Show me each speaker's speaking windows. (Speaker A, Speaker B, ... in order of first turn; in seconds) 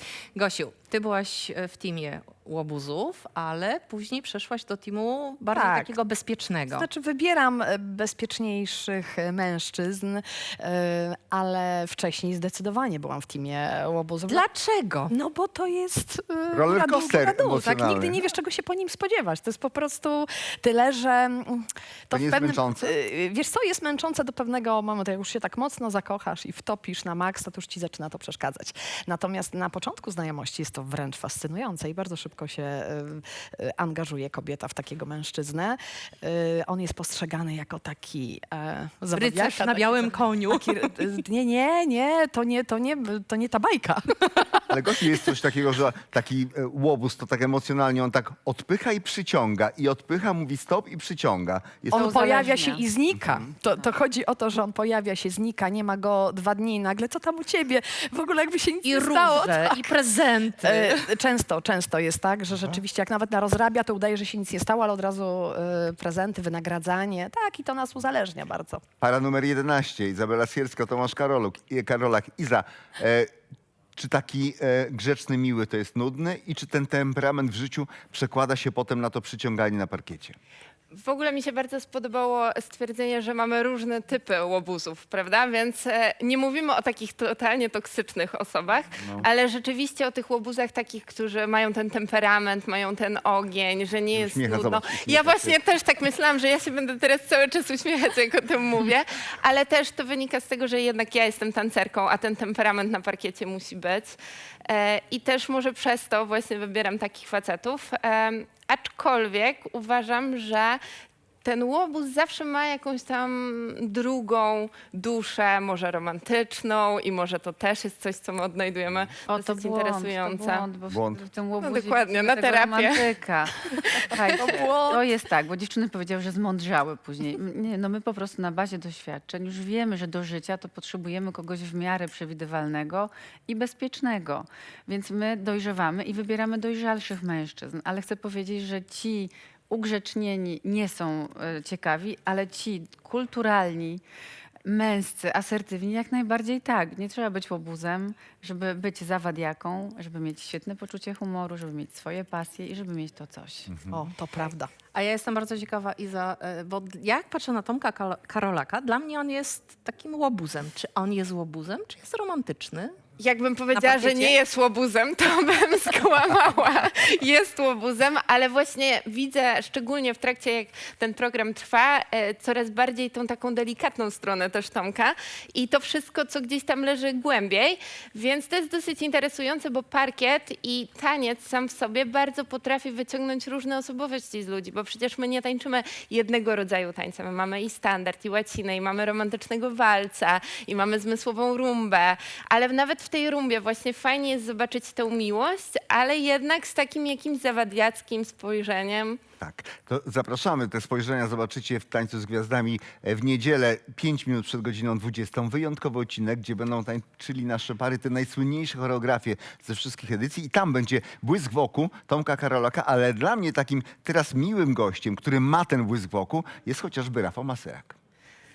Speaker A: 0.3-6.9, 14.3-15.1, 39.1-41.1, 58.8-61.1, 154.9-162.9, 163.7-164.4
Speaker B: 5.5-6.0, 6.7-14.4, 15.1-44.7, 51.9-59.9, 60.6-68.8, 123.7-125.0, 153.8-154.7
Speaker C: 16.5-18.2, 22.1-22.9, 44.7-52.1, 69.0-73.3, 74.0-80.3, 89.0-89.2, 94.1-95.5, 120.9-121.2, 199.4-217.9
Speaker D: 52.1-52.8, 119.3-123.6, 124.2-144.0, 144.7-153.8
Speaker E: 80.9-110.8, 111.4-120.6, 121.6-123.0, 123.8-124.2, 163.2-199.2